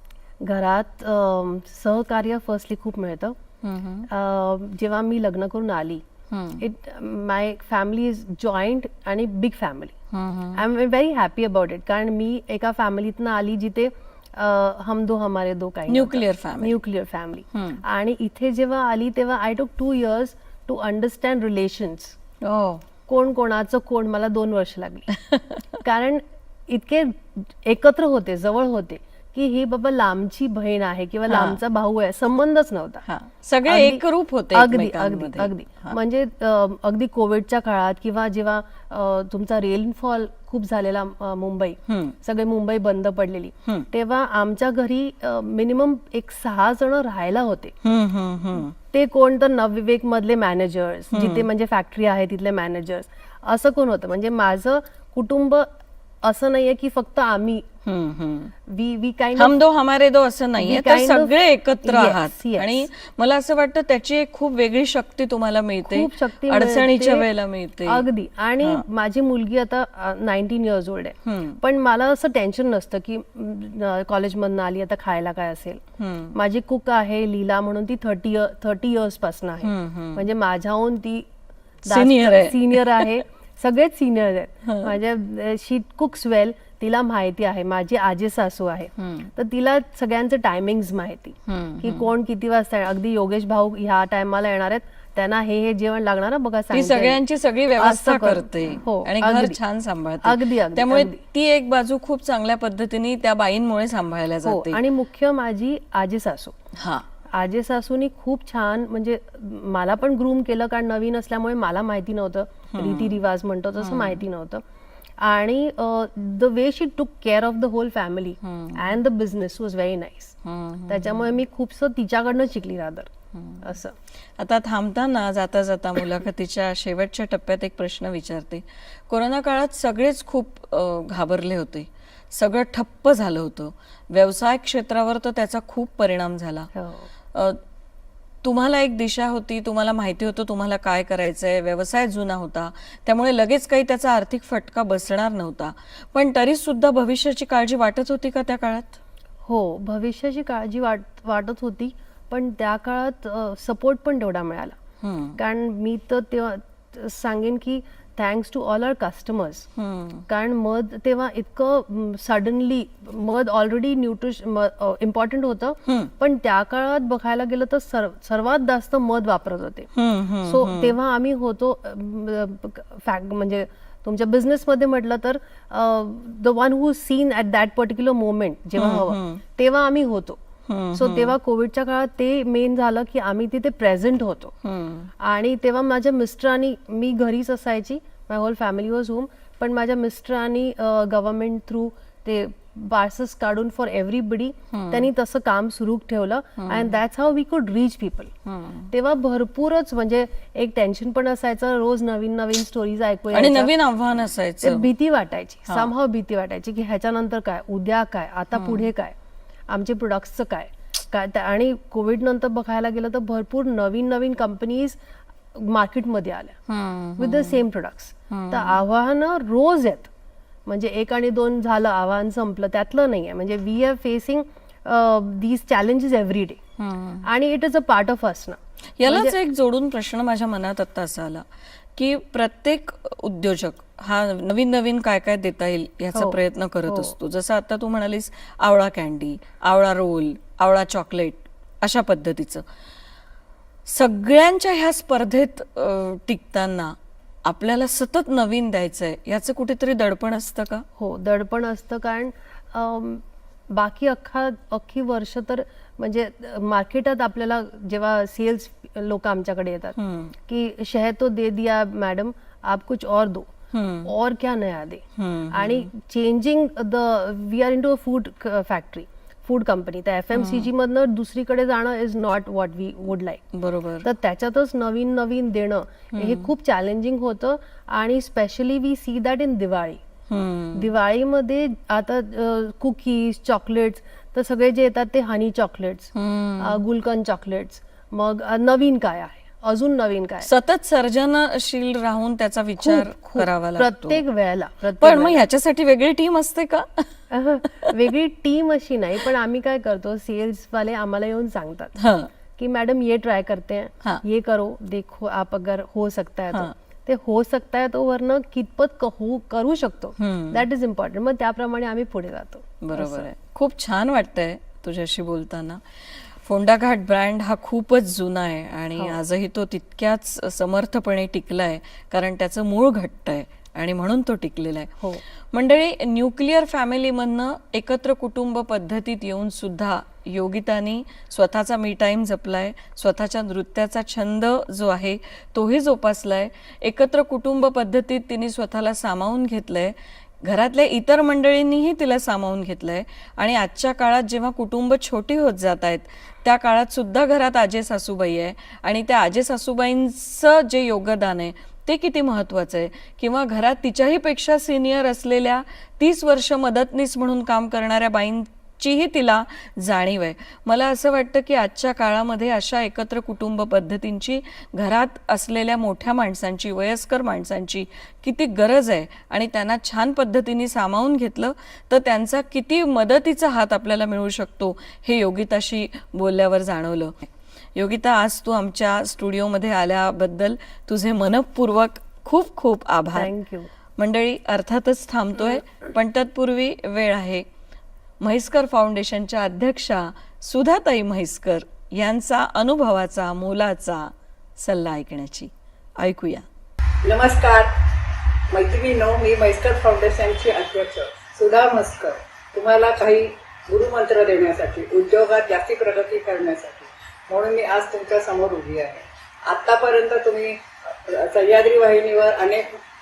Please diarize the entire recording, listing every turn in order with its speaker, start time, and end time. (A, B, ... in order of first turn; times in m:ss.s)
0:00.4-0:03.4 A
0:03.6-0:04.1 B
0:04.1-0:06.0 A
0:06.3-0:06.6 B
0:06.6-0:09.9 A
0:10.1-0:10.6 B
0:10.5-0:22.2 A
0:15.9-0:16.8 B
0:17.5-0:17.8 B
0:22.4-0:22.8 B
0:23.1-0:25.1 A
0:25.2-0:25.6 B
0:25.8-0:33.0 A
0:31.3-0:31.6 B
0:33.1-0:36.0 B
0:33.6-0:47.7 A
0:41.9-0:42.1 B
0:47.8-0:48.7 B
0:48.9-0:55.7 A
0:51.1-0:51.5 B
0:56.2-0:57.6 A
0:57.8-0:58.5 B
0:58.7-0:59.6 A
0:59.4-1:08.0 B
1:00.6-1:02.9 A
1:05.8-1:07.3 A
1:07.8-1:15.8 A
1:11.2-1:11.6 B
1:16.0-1:16.4 B
1:16.3-1:21.3 A
1:19.6-1:20.2 B
1:21.8-1:37.2 A
1:21.9-1:23.2 B
1:24.6-1:25.0 B
1:29.0-1:29.3 B
1:31.5-1:32.1 B
1:36.7-1:44.8 B
1:37.8-1:39.6 A
1:40.2-1:41.2 A
1:44.4-1:46.5 A
1:46.8-1:47.0 B
1:47.3-1:54.6 A
1:52.7-1:53.2 B
1:53.8-1:54.2 B
1:55.2-2:00.3 A
1:58.4-1:58.9 B
2:00.4-2:01.4 B
2:00.9-2:03.1 A
2:03.3-2:03.6 B
2:03.6-2:03.9 A
2:04.4-2:16.7 B
2:16.7-2:17.0 A
2:17.3-2:17.6 B
2:18.4-2:29.0 B
2:29.4-2:34.8 A
2:35.0-2:35.4 B
2:35.4-2:39.7 A
2:39.8-2:40.2 B
2:40.3-2:49.9 A
2:49.9-2:51.0 B
2:50.4-3:00.4 A
2:58.8-2:59.4 B
3:00.7-3:01.4 B
3:00.9-3:04.5 A
3:04.6-3:05.1 B
3:05.2-3:18.3 A
3:14.7-3:15.1 B
3:16.6-3:17.0 B
3:18.4-3:18.9 B
3:18.9-3:23.7 A
3:23.3-3:24.9 B
3:24.6-3:29.2 A
3:28.5-3:28.9 B
3:29.7-3:35.0 A
3:35.5-3:36.6 A
3:36.7-3:37.6 B
3:37.2-3:40.1 A
3:38.3-3:38.8 B
3:40.6-3:46.6 A
3:46.8-3:47.2 B
3:47.2-3:49.3 A
3:49.0-3:51.4 B
3:52.0-4:02.6 B
3:56.1-3:57.1 A
4:03.9-4:06.9 B
4:07.4-4:10.8 B
4:11.0-4:23.5 A
4:20.0-4:20.3 B
4:23.7-4:24.1 B
4:24.0-4:33.4 A
4:25.2-4:25.9 B
4:30.3-4:30.7 B
4:33.5-4:34.1 B
4:34.0-4:40.0 A
4:36.1-4:36.5 B
4:40.3-4:40.9 B
4:40.7-4:50.5 A
4:46.1-4:46.8 B
4:50.4-4:54.2 B
4:52.8-4:55.4 A
4:55.0-4:57.1 B
4:57.3-5:01.9 A
5:02.0-5:02.3 B
5:02.6-5:13.3 A
5:10.2-5:10.6 B
5:12.8-5:15.8 B
5:16.4-5:25.0 B
5:25.5-6:23.3 B
6:23.1-6:23.7 A
6:24.0-6:27.4 B
6:28.2-6:36.4 B
6:37.0-6:37.7 C
6:38.5-6:52.6 C